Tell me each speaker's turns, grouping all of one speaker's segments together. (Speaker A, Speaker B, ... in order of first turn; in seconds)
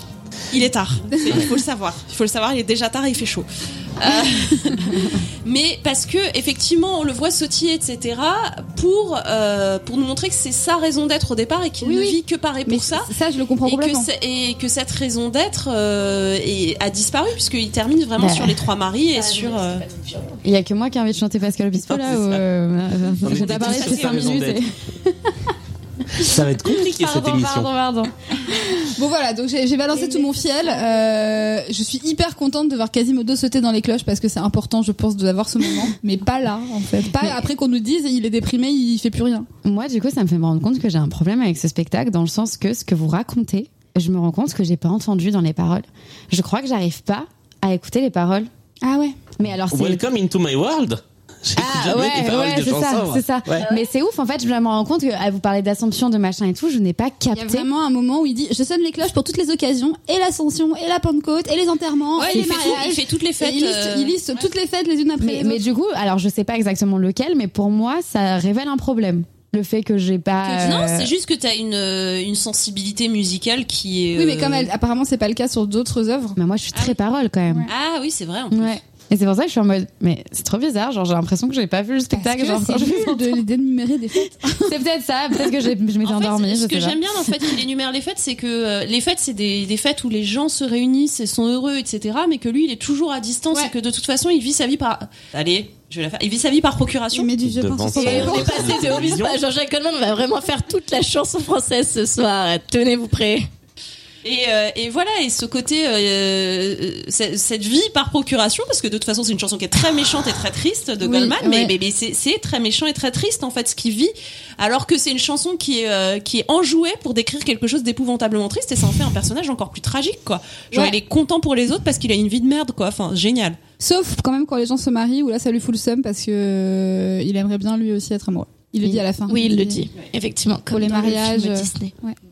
Speaker A: 0.5-13.1, 13.6-19.8, 23.2-24.4, 62.2-64.2, 70.4-74.7, 76.7-77.0, 77.7-78.8, 86.0-97.3, 104.2-123.6
Speaker B: 4.2-5.0, 11.8-14.1, 28.8-39.5, 48.8-49.2, 57.3-65.6, 74.2-76.4, 82.1-84.7, 97.1-99.1, 111.0-111.7, 123.8-129.8, 130.7-132.2
Speaker C: 18.2-18.6, 20.4-25.1, 26.6-28.1, 39.6-48.5, 49.4-50.0, 51.5-57.7, 65.2-71.1, 76.3-77.7, 78.5-83.4, 84.6-87.0
Speaker D: 19.1-20.4, 97.9-103.5, 129.3-131.9
Speaker E: 21.9-22.4, 23.2-24.6, 26.1-27.7, 49.7-53.7, 97.4-99.4